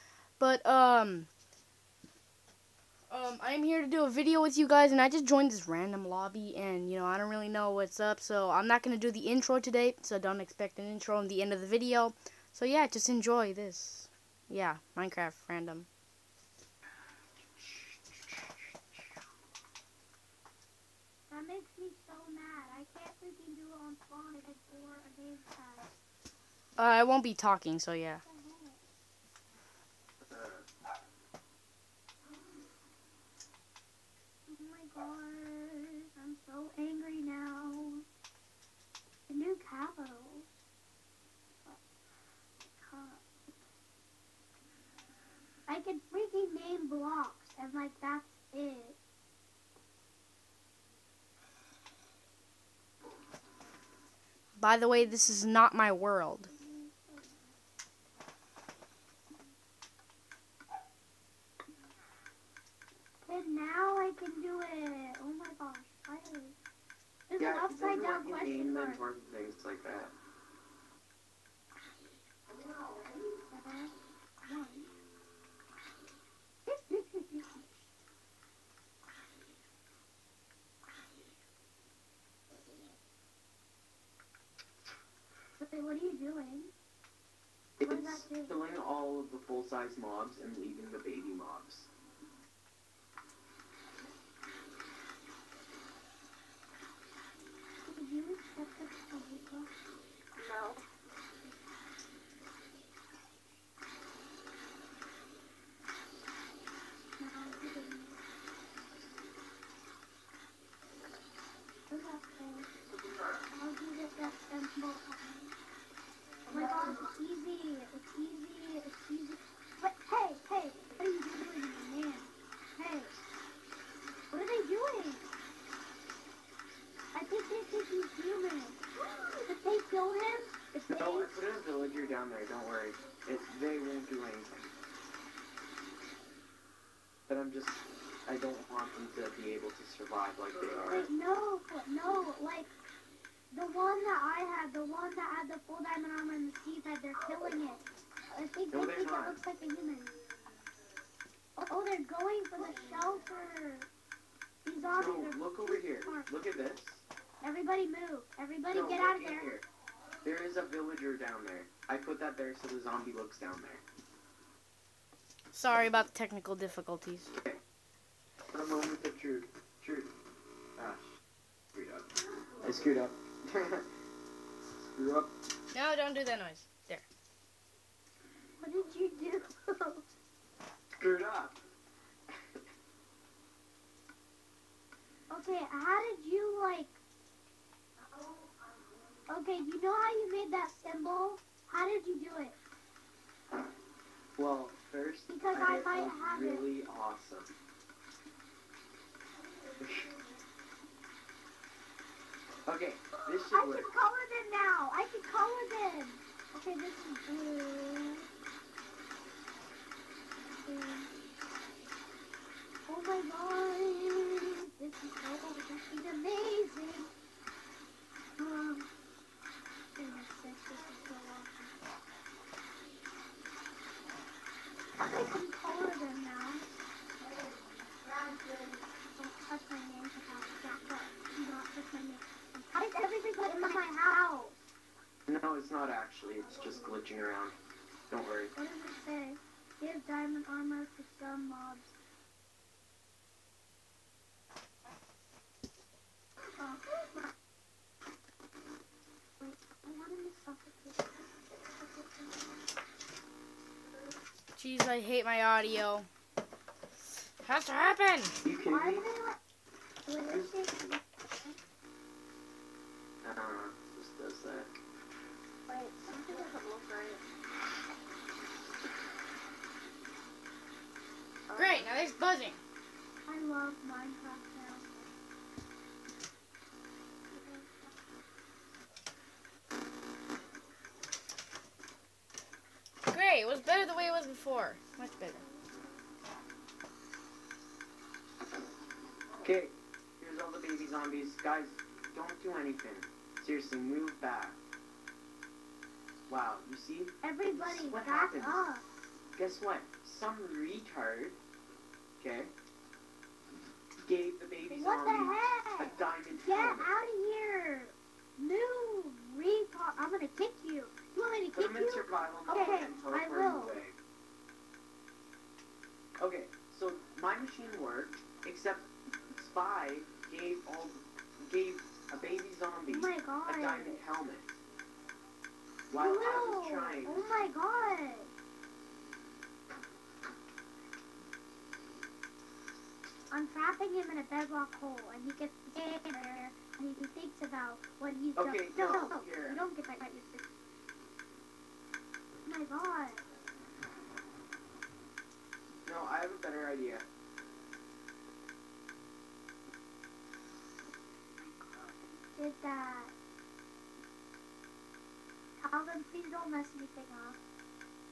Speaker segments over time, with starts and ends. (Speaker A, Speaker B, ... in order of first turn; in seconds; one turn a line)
Speaker A: 0.4-1.3
Speaker A: 3.1-15.9
Speaker B: 21.3-25.9
Speaker A: 26.8-28.2
Speaker B: 28.2-28.8
Speaker C: 30.2-30.6
Speaker B: 34.5-38.0
Speaker B: 39.3-40.6
Speaker B: 42.7-43.2
Speaker B: 45.7-49.0
Speaker A: 54.6-56.5
Speaker B: 56.5-57.5
Speaker B: 63.2-66.5
Speaker B: 67.3-69.0
Speaker C: 67.4-70.1
Speaker B: 73.5-73.9
Speaker B: 74.5-74.9
Speaker B: 76.7-77.6
Speaker B: 85.6-86.7
Speaker C: 87.8-91.9
Speaker B: 87.8-88.5
Speaker B: 97.9-99.7
Speaker D: 100.4-100.8
Speaker B: 107.2-108.2
Speaker B: 111.9-112.7
Speaker B: 113.5-115.5
Speaker B: 116.5-123.1
Speaker B: 124.3-125.2
Speaker B: 127.1-128.8
Speaker B: 129.4-131.3
Speaker C: 130.9-134.7
Speaker C: 137.3-141.1
Speaker B: 140.8-142.7
Speaker B: 143.5-150.1
Speaker C: 148.7-149.4
Speaker B: 151.6-153.9
Speaker B: 154.6-156.3
Speaker C: 154.9-157.0
Speaker B: 157.4-159.6
Speaker C: 158.7-159.6
Speaker C: 160.2-163.8
Speaker A: 165.5-167.3
Speaker C: 168.5-170.1
Speaker C: 170.8-171.1
Speaker C: 171.7-172.1
Speaker C: 172.6-173.9
Speaker C: 174.8-175.3
Speaker A: 175.7-177.0
Speaker B: 178.6-180.0
Speaker C: 181.0-181.6
Speaker B: 185.3-187.0
Speaker B: 189.3-192.6
Speaker C: 194.3-197.6
Speaker B: 195.3-196.7
Speaker C: 199.8-200.1
Speaker C: 202.7-203.9
Speaker B: 203.5-208.3
Speaker B: 210.5-211.1
Speaker B: 212.9-217.1
Speaker B: 218.4-218.9
Speaker B: 219.9-221.7
Speaker B: 225.0-226.7
Speaker B: 229.1-234.6
Speaker C: 235.3-237.5
Speaker C: 238.1-238.5
Speaker B: 238.5-241.9
Speaker B: 246.6-247.2
Speaker B: 249.4-251.2
Speaker B: 251.8-252.3
Speaker A: 254.6-256.1
Speaker A: 257.4-258.4
Speaker C: 258.4-259.1
Speaker B: 258.7-259.4
Speaker B: 260.1-261.5
Speaker C: 263.2-264.8
Speaker D: 265.7-267.2
Speaker B: 265.7-266.5
Speaker D: 271.5-272.1
Speaker A: 271.6-272.6
Speaker B: 273.3-274.9
Speaker B: 277.4-277.6
Speaker A: 283.0-285.4
Speaker C: 289.4-294.6
Speaker C: 296.3-298.6
Speaker B: 297.2-298.8
Speaker C: 299.4-301.4
Speaker C: 302.2-302.5
Speaker C: 304.0-306.9
Speaker B: 304.7-313.8
Speaker C: 311.5-313.9
Speaker C: 316.2-324.6
Speaker B: 322.9-324.0
Speaker C: 325.9-327.4
Speaker B: 325.9-328.3
Speaker B: 333.3-340.5
Speaker C: 338.4-339.6
Speaker B: 342.4-343.2
Speaker C: 345.9-347.0
Speaker B: 351.4-353.1
Speaker B: 355.6-357.4